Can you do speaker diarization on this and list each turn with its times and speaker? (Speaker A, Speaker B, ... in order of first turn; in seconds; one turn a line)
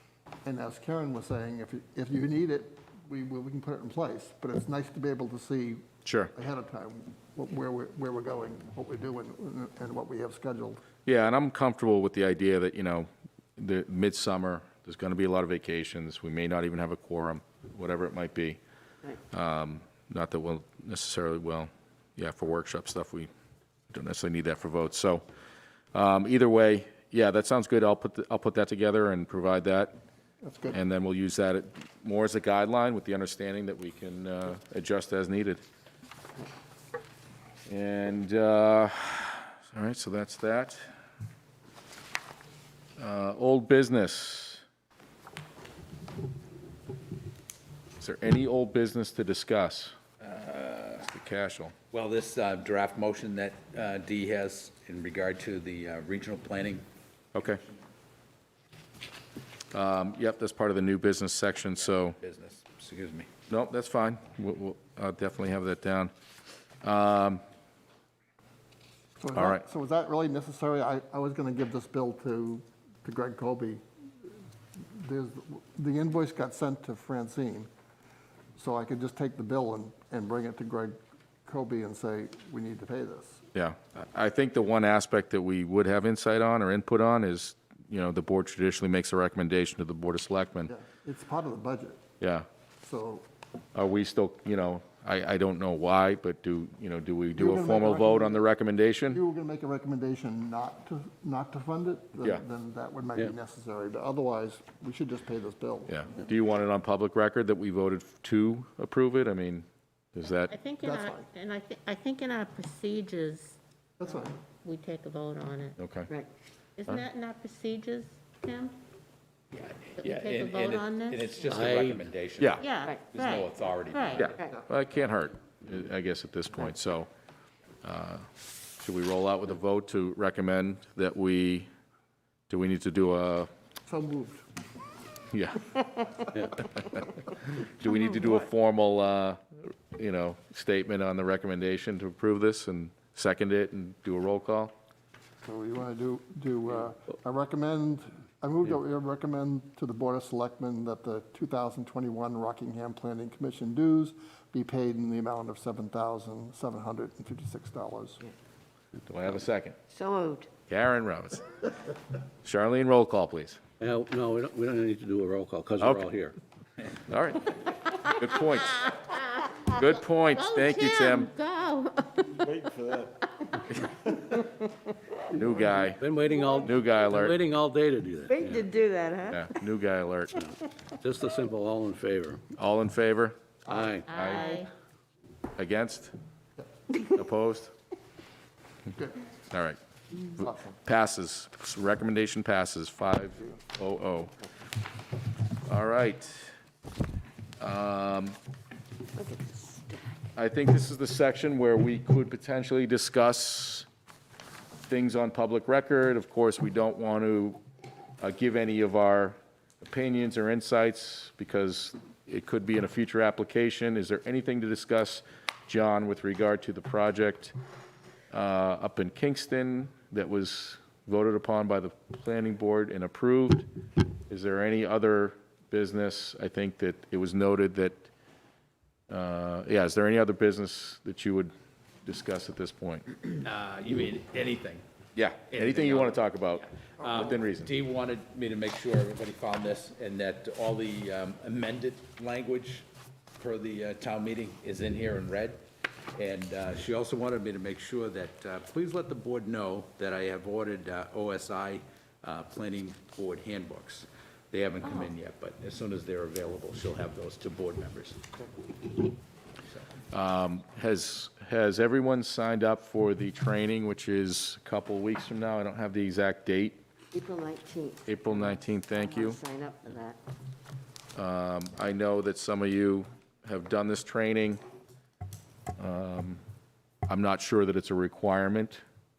Speaker A: 0.4-5.8
Speaker B: 6.0-6.3
Speaker A: 6.3-10.8
Speaker B: 11.1-18.6
Speaker B: 19.3-23.3
Speaker B: 23.9-25.2
Speaker B: 25.9-30.0
Speaker A: 30.4-30.8
Speaker B: 30.7-35.6
Speaker B: 37.7-40.9
Speaker B: 43.0-44.6
Speaker B: 48.0-50.0
Speaker C: 50.3-51.0
Speaker B: 51.0-51.7
Speaker C: 51.9-56.9
Speaker B: 57.3-57.6
Speaker B: 59.7-62.2
Speaker C: 61.8-63.3
Speaker B: 63.5-66.1
Speaker B: 66.8-67.4
Speaker A: 69.2-73.8
Speaker B: 69.3-69.6
Speaker A: 74.8-77.7
Speaker A: 78.6-83.4
Speaker B: 83.5-90.7
Speaker A: 90.7-92.0
Speaker B: 92.2-92.5
Speaker A: 92.8-93.3
Speaker B: 93.8-99.2
Speaker A: 97.3-98.5
Speaker A: 99.1-106.0
Speaker B: 105.9-110.5
Speaker D: 110.5-115.8
Speaker A: 110.8-111.3
Speaker A: 114.0-114.4
Speaker B: 115.8-116.1
Speaker D: 116.8-118.8
Speaker C: 119.5-124.5
Speaker D: 120.0-121.4
Speaker E: 121.4-122.0
Speaker D: 122.6-124.3
Speaker B: 124.2-127.1
Speaker F: 124.3-124.6
Speaker B: 127.8-128.3
Speaker B: 128.8-131.7
Speaker B: 132.5-133.5
Speaker A: 133.9-134.5
Speaker B: 135.3-144.7
Speaker A: 145.5-158.2
Speaker B: 159.1-159.8
Speaker F: 159.9-160.5
Speaker B: 160.7-161.5
Speaker B: 162.4-163.6
Speaker E: 163.8-166.4
Speaker B: 165.8-166.1
Speaker B: 167.1-168.9
Speaker D: 168.8-169.5
Speaker B: 169.6-171.3
Speaker D: 170.3-172.8
Speaker B: 175.3-176.0
Speaker E: 176.0-178.7
Speaker B: 176.6-177.4
Speaker F: 178.3-179.5
Speaker B: 179.3-180.5
Speaker E: 180.3-182.5
Speaker B: 182.6-184.5
Speaker E: 183.7-184.1
Speaker D: 184.1-184.7
Speaker B: 185.6-186.1
Speaker B: 187.1-187.7
Speaker B: 189.5-189.8
Speaker B: 190.3-194.3
Speaker A: 190.4-190.7
Speaker B: 195.7-196.5
Speaker B: 197.6-198.4
Speaker F: 199.2-200.3
Speaker B: 200.4-203.9
Speaker B: 204.9-207.6
Speaker B: 208.2-217.6
Speaker B: 218.3-228.1
Speaker B: 229.1-231.5
Speaker B: 232.0-233.2
Speaker C: 233.4-234.8
Speaker B: 235.2-237.7
Speaker C: 235.5-242.9
Speaker C: 243.4-245.6
Speaker C: 246.2-258.2
Speaker F: 254.8-255.1
Speaker B: 260.1-266.8
Speaker F: 267.1-270.2
Speaker B: 268.1-269.4
Speaker B: 271.1-274.6
Speaker B: 275.8-276.4
Speaker B: 277.1-278.8